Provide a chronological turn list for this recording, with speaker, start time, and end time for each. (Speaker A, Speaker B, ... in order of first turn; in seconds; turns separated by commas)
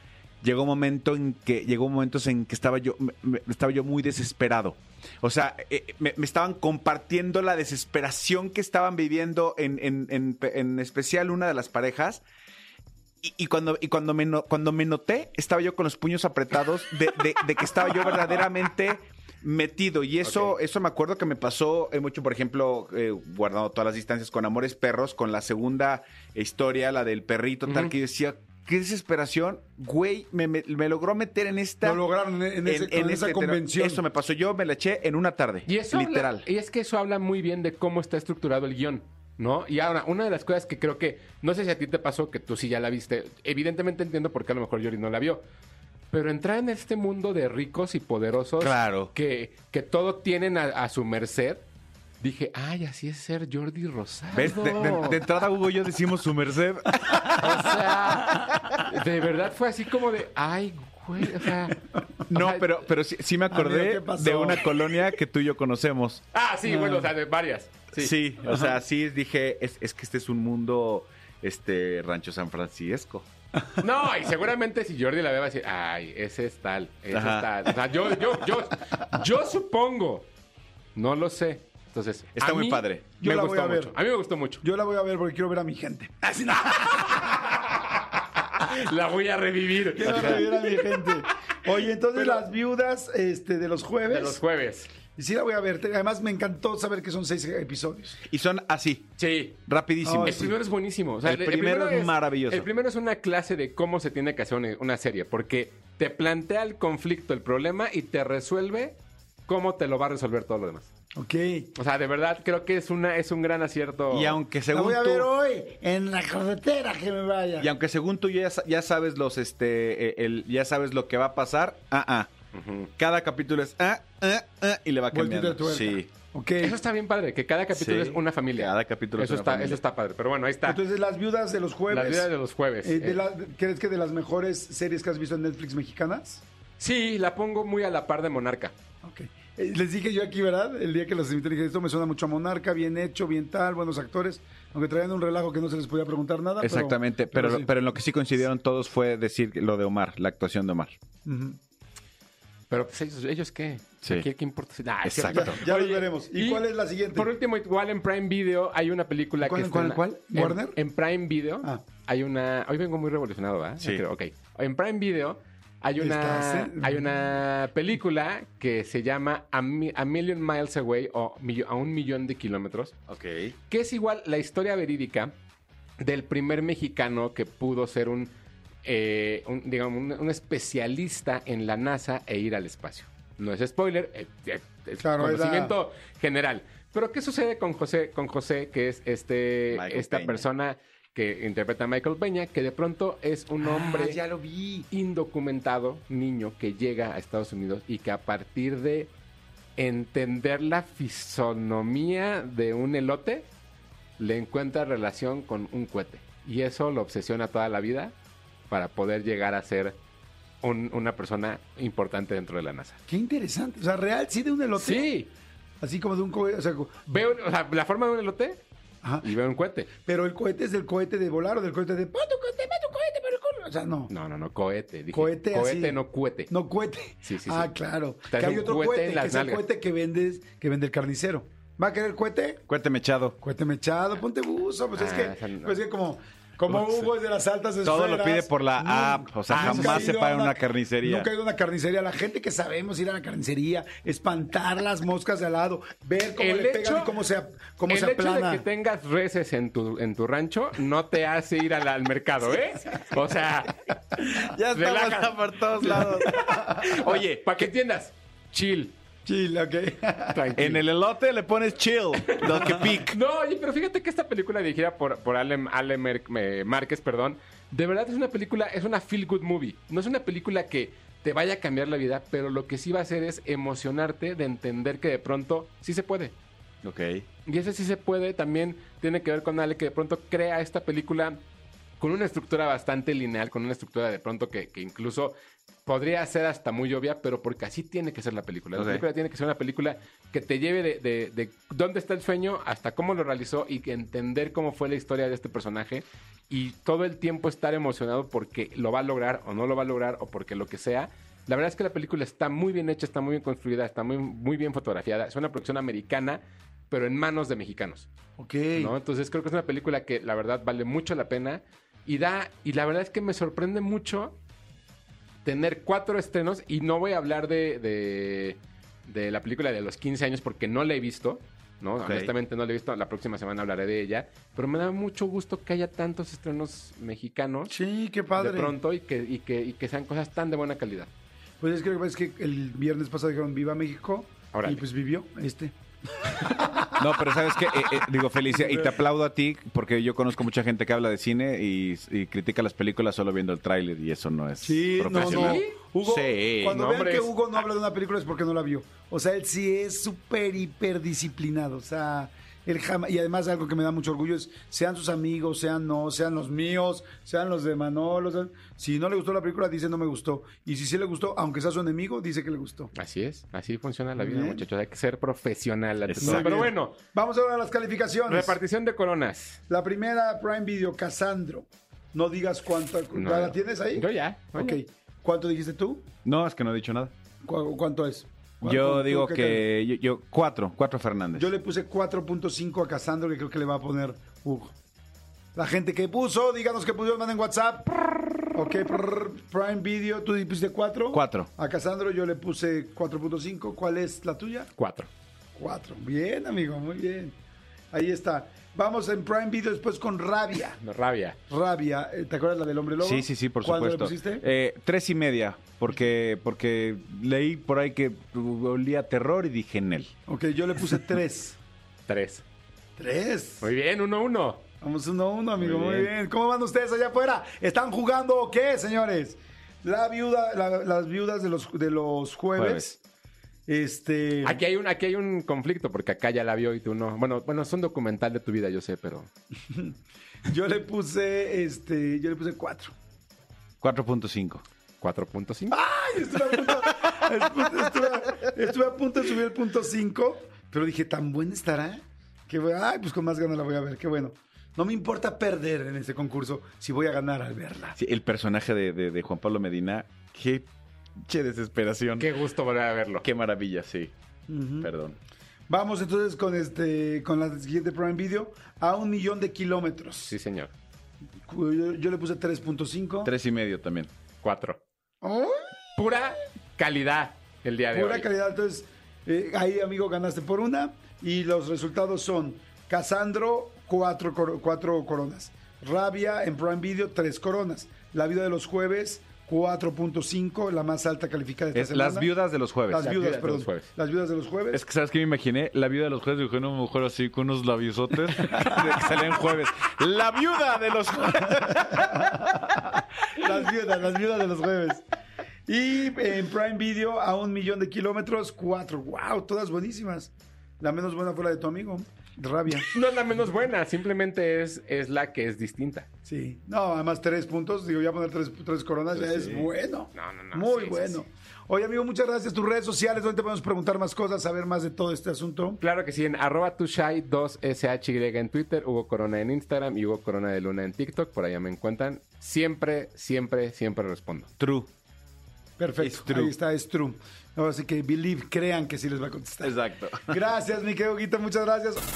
Speaker A: 0.4-12.2, Speaker A: 13.2-32.0, Speaker B: 20.2-20.5, Speaker B: 27.7-27.9, Speaker C: 31.8-34.0, Speaker A: 32.6-36.4, Speaker B: 35.7-45.4, Speaker B: 46.1-51.6, Speaker A: 48.6-49.1, Speaker B: 52.2-55.2, Speaker A: 54.3-57.8, Speaker C: 57.1-57.4, Speaker B: 57.3-62.8, Speaker A: 58.3-58.9, Speaker C: 61.7-62.0, Speaker A: 62.3-66.2, Speaker C: 63.5-65.0, Speaker B: 66.3-68.1, Speaker C: 66.7-67.1, Speaker A: 68.0-73.3, Speaker C: 68.5-68.7, Speaker B: 73.8-80.3, Speaker A: 77.1-77.7, Speaker B: 80.9-84.6, Speaker A: 82.3-83.1, Speaker C: 83.2-84.0, Speaker C: 84.6-87.9, Speaker B: 87.1-87.6, Speaker B: 88.5-91.2, Speaker C: 89.9-94.4, Speaker A: 90.0-90.4, Speaker B: 94.1-94.9, Speaker C: 95.2-98.2, Speaker A: 98.3-99.1, Speaker B: 99.2-99.6, Speaker A: 99.7-100.5, Speaker C: 100.0-100.5, Speaker B: 100.2-110.9, Speaker A: 101.2-102.7, Speaker C: 111.2-111.7, Speaker B: 111.8-114.4, Speaker A: 114.1-115.3, Speaker C: 114.7-117.7, Speaker A: 117.6-122.3, Speaker B: 122.5-122.9, Speaker A: 123.0-126.1, Speaker C: 125.1-126.8, Speaker B: 126.6-130.8, Speaker A: 127.7-129.8, Speaker C: 130.6-132.3, Speaker B: 131.9-133.2, Speaker C: 132.8-136.4, Speaker B: 136.8-138.7, Speaker C: 139.0-147.7, Speaker A: 146.6-150.9, Speaker C: 151.2-151.6, Speaker B: 152.7-172.9, Speaker A: 155.0-155.6, Speaker C: 155.3-157.3, Speaker C: 159.4-160.8, Speaker C: 166.0-167.1, Speaker A: 173.1-173.5, Speaker B: 173.7-175.3, Speaker B: 176.0-178.3, Speaker B: 178.8-194.2, Speaker C: 185.0-185.7, Speaker A: 189.7-190.4, Speaker C: 193.6-194.9, Speaker B: 194.9-199.1, Speaker B: 199.8-203.5, Speaker B: 204.2-208.1, Speaker B: 208.7-210.0, Speaker B: 210.6-213.0, Speaker C: 213.1-215.1, Speaker B: 214.8-215.3, Speaker C: 215.8-217.0, Speaker B: 217.1-218.6, Speaker B: 219.2-219.9, Speaker C: 220.0-224.1, Speaker B: 224.1-226.5, Speaker C: 225.1-232.6, Speaker B: 227.2-227.7, Speaker B: 228.3-229.6, Speaker A: 232.7-233.4, Speaker C: 233.4-248.6, Speaker B: 234.9-235.8, Speaker A: 237.8-241.3, Speaker B: 239.5-240.1, Speaker B: 246.4-247.1, Speaker B: 247.9-253.8, Speaker A: 254.2-257.7, Speaker B: 254.7-258.9, Speaker C: 256.0-256.9, Speaker C: 259.2-260.5, Speaker B: 260.3-260.8, Speaker A: 260.6-263.1, Speaker B: 262.3-276.3, Speaker C: 262.6-262.9, Speaker A: 276.8-277.2, Speaker B: 277.4-281.4, Speaker B: 282.0-285.3, Speaker B: 285.9-308.1, Speaker A: 288.8-289.0, Speaker C: 308.4-308.9, Speaker B: 308.8-314.4, Speaker B: 315.4-327.7, Speaker A: 322.0-322.3, Speaker C: 327.7-328.7, Speaker B: 328.3-331.1, Speaker C: 331.6-339.0, Speaker B: 334.5-334.8, Speaker A: 336.9-346.8, Speaker C: 344.6-362.9, Speaker B: 345.1-345.8, Speaker B: 346.6-347.3, Speaker B: 362.9-367.0, Speaker C: 364.2-364.6, Speaker A: 366.1-366.7, Speaker C: 366.2-368.6, Speaker B: 368.3-369.6, Speaker C: 369.7-376.1, Speaker B: 373.1-374.8, Speaker A: 376.2-377.1, Speaker C: 377.4-379.7, Speaker A: 378.6-381.5, Speaker C: 381.3-384.7, Speaker C: 385.5-387.9, Speaker C: 388.5-394.7, Speaker A: 391.1-391.5, Speaker B: 394.8-395.1, Speaker C: 395.6-397.4, Speaker C: 397.9-400.8, Speaker B: 400.8-401.4, Speaker C: 401.5-404.4, Speaker A: 403.0-410.1, Speaker C: 410.3-411.6, Speaker B: 412.1-412.4, Speaker C: 413.0-413.7, Speaker B: 413.6-414.6, Speaker C: 414.8-422.9, Speaker A: 415.6-416.1, Speaker A: 422.6-422.9, Speaker C: 423.7-424.6, Speaker B: 424.4-429.3, Speaker C: 429.7-429.9, Speaker C: 430.4-432.9, Speaker A: 433.8-434.6, Speaker B: 435.0-435.8, Speaker C: 435.7-448.0, Speaker A: 448.0-450.6, Speaker A: 451.2-452.3, Speaker B: 452.2-453.2, Speaker A: 453.2-454.1, Speaker C: 454.5-454.9, Speaker A: 454.8-455.2, Speaker C: 455.7-460.3, Speaker B: 460.3-460.7, Speaker C: 461.4-463.3, Speaker A: 463.2-464.1, Speaker B: 464.4-464.8, Speaker C: 465.2-465.7, Speaker B: 465.9-468.3, Speaker C: 467.9-482.3, Speaker A: 481.7-483.1, Speaker C: 482.9-484.8, Speaker B: 483.0-483.9, Speaker A: 484.7-492.5, Speaker C: 488.4-489.2, Speaker C: 491.4-495.0, Speaker C: 495.7-502.9, Speaker B: 502.8-506.1, Speaker C: 506.2-515.8, Speaker A: 509.1-509.7, Speaker B: 510.1-511.2, Speaker B: 515.8-524.5, Speaker A: 524.6-524.9, Speaker C: 525.8-532.0, Speaker A: 526.0-526.5, Speaker A: 529.6-530.4